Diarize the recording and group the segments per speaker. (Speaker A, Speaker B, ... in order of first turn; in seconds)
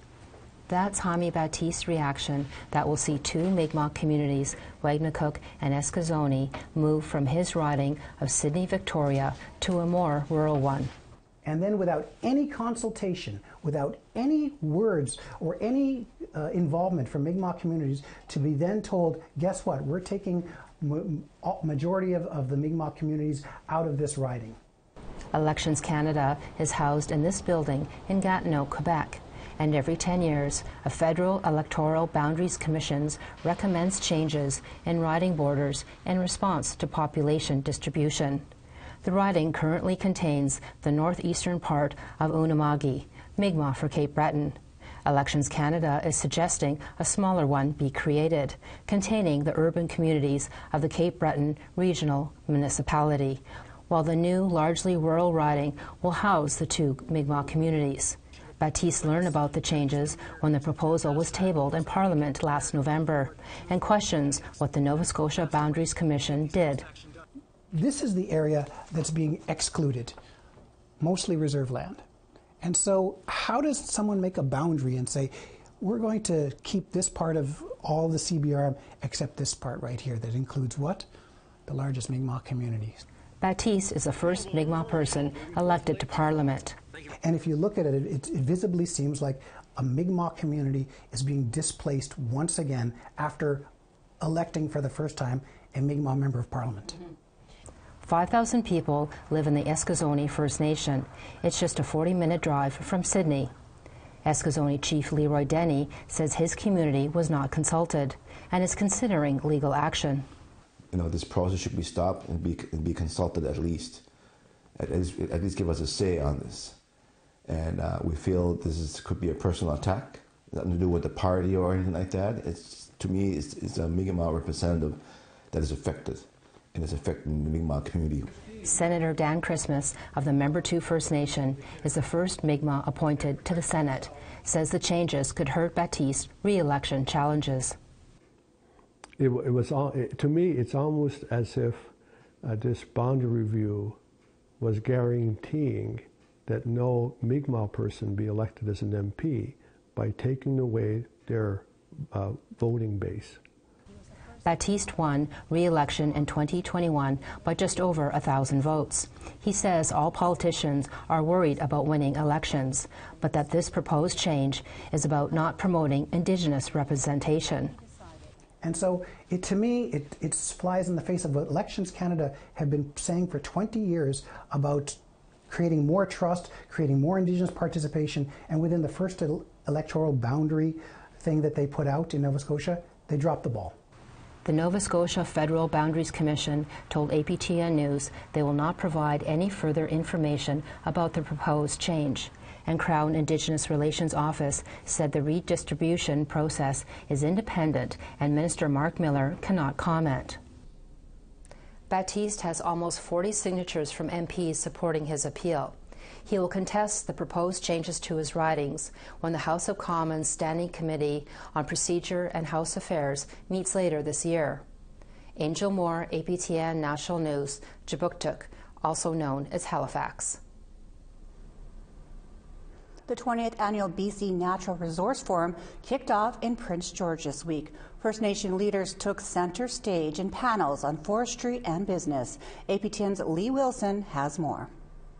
Speaker A: 0.7-10.9, 25.3-38.5, 39.0-66.9, 83.4-86.8, 98.0-103.5, 104.2-110.3, 128.6-137.8, 154.4-167.7, 184.4-200.4, 201.9-214.6, 215.4-220.4
Speaker B: 11.4-24.6, 67.7-70.2, 71.0-72.0, 72.6-81.1, 81.7-83.0, 87.2-93.7, 94.2-97.0, 168.6-183.8
Speaker C: 110.9-114.0, 114.8-116.8, 117.5-128.3
Speaker D: 139.2-144.0, 144.6-153.4
Speaker E: 223.1-234.7